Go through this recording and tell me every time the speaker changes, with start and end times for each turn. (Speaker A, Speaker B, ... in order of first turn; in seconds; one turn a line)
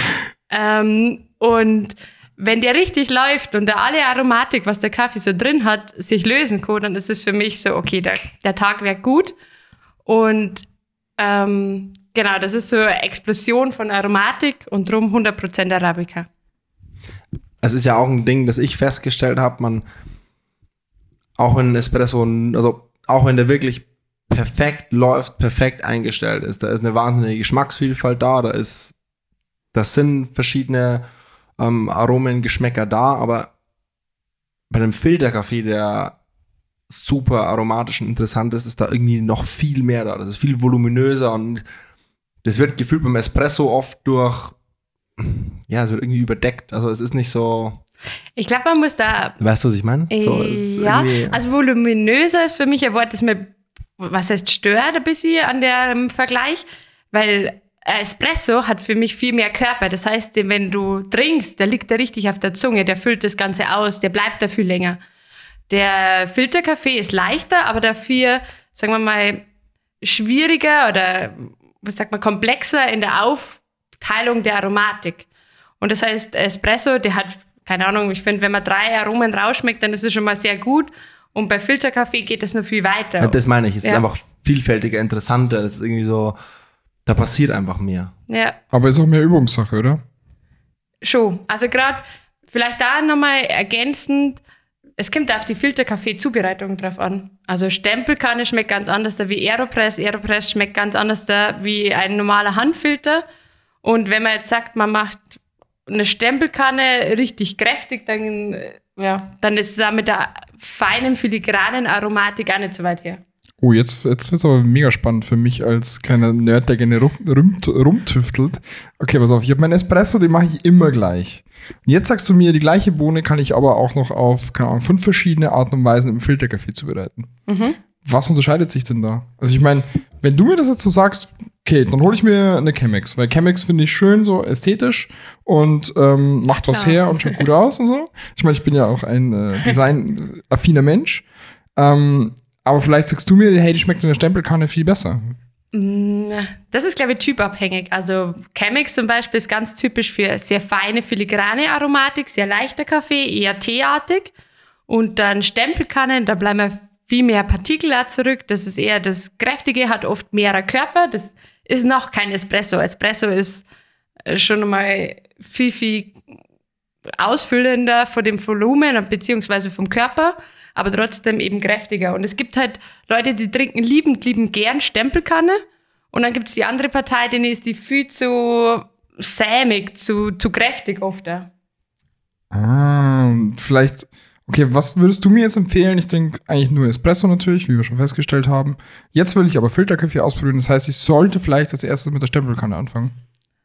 Speaker A: 0.5-9.3
Speaker A: 10.1-10.7
Speaker A: 11.2-16.3
Speaker B: 17.6-19.9
Speaker B: 21.4-28.9
Speaker B: 29.7-31.1
Speaker B: 31.6-33.5
Speaker B: 34.7-36.2
Speaker B: 36.9-41.6
Speaker B: 42.4-44.6
Speaker B: 45.2-47.8
Speaker A: 48.4-49.4
Speaker B: 49.4-51.4
Speaker A: 50.1-65.0
Speaker A: 65.7-69.4
Speaker A: 70.0-75.3
Speaker A: 75.8-84.0
Speaker B: 83.2-86.4
Speaker B: 87.1-88.1
Speaker A: 88.3-88.6
Speaker C: 88.7-90.0
Speaker A: 91.0-94.4
Speaker A: 95.0-103.2
Speaker A: 103.8-105.3
Speaker A: 105.9-113.2
Speaker C: 113.6-127.3
Speaker A: 127.5-127.8
Speaker C: 128.0-141.2
Speaker A: 136.5-137.4
Speaker C: 141.8-145.4
Speaker A: 145.7-154.3
Speaker A: 154.9-163.7
Speaker A: 164.3-166.2
Speaker A: 167.2-181.5
Speaker C: 182.5-193.1